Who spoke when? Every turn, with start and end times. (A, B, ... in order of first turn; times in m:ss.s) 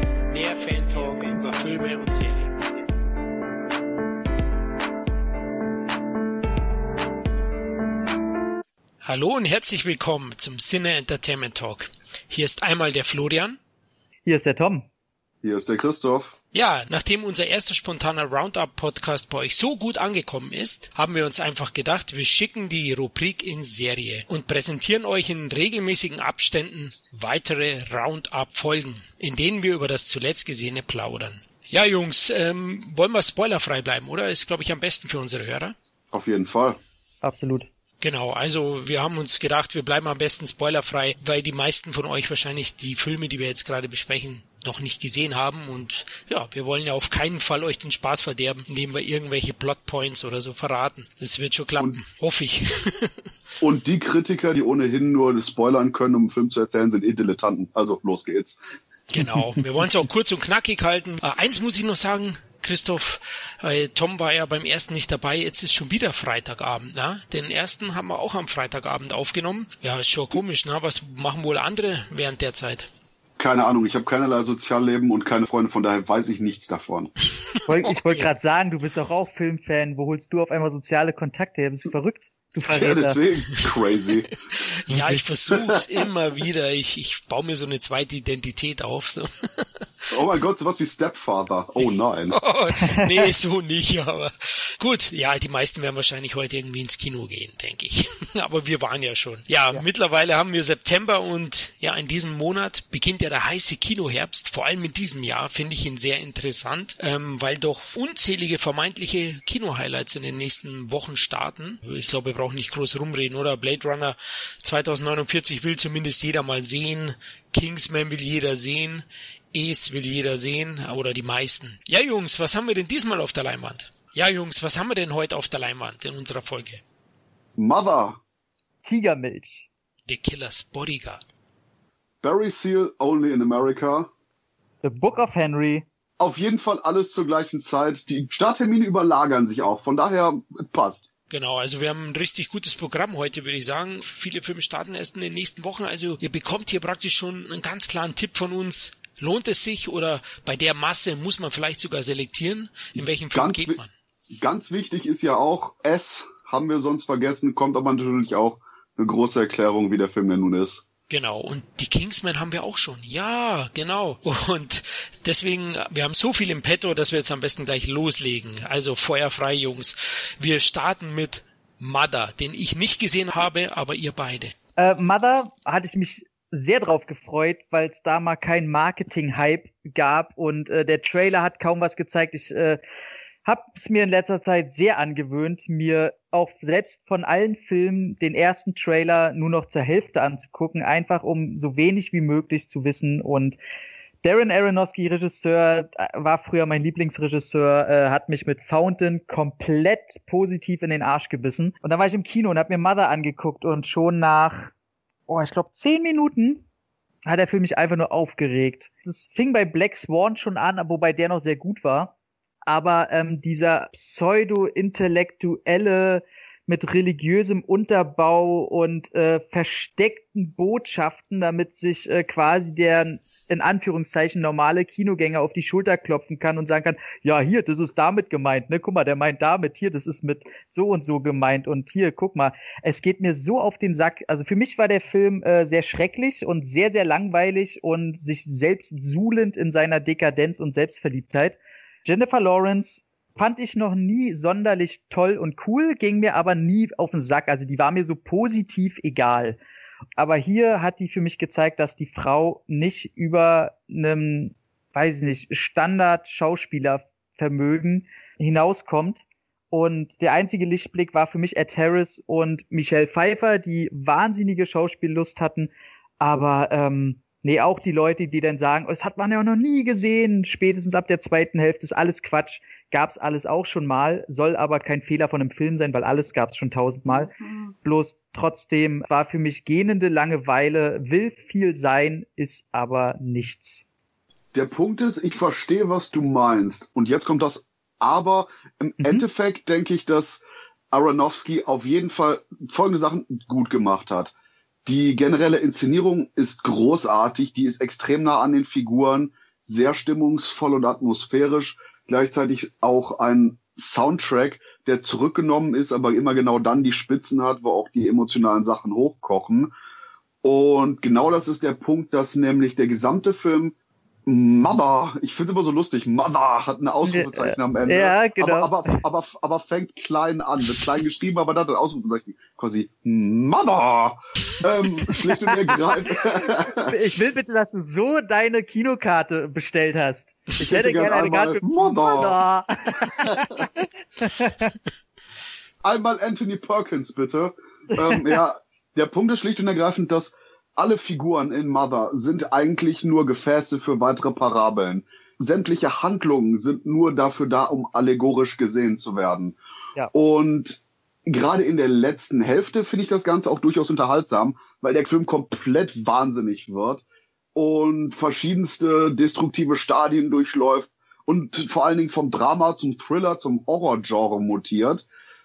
0:00.3-0:02.6 A
0:09.0-0:13.6 A
0:14.3-0:14.8 B
0:15.4-0:16.4 C
0:16.5-0:35.8 A
0:36.1-0:36.8 C
0:37.2-0:37.7 B
0:38.0-0:53.3 A
0:53.6-0:58.6 C
0:59.1-1:12.9 A
1:13.4-1:17.1 C
1:17.7-1:23.2 B
1:22.7-1:24.3 C
1:24.6-1:30.1 A
1:24.9-1:25.8 C
1:30.1-1:32.4 C
1:31.8-2:06.8 A
1:32.9-1:33.3 B
2:07.6-2:08.2 C
2:08.8-2:09.7 B
2:10.1-2:11.3 A
2:12.2-2:14.1 C
2:14.8-2:15.8 B
2:16.2-2:21.1 C
2:21.3-2:33.9 A
2:33.3-2:33.8 C
2:34.4-2:40.8 C
2:41.1-2:54.5 A
2:54.8-3:02.8 B
3:03.4-3:13.6 B
3:14.2-3:24.7 B
3:25.3-3:26.6 B
3:27.3-3:32.1 B
3:32.7-4:09.6 B
4:10.2-4:43.8 B
4:44.5-4:54.3 C
4:49.0-4:49.2 B
4:54.8-5:09.7 C
5:10.4-5:13.8 C
5:14.3-5:26.9 C
5:17.0-5:19.0 B
5:25.4-5:34.8 B
5:30.6-5:32.4 C
5:32.9-5:33.6 C
5:35.8-5:49.6 C
5:38.0-5:38.4 B
5:50.1-6:05.1 C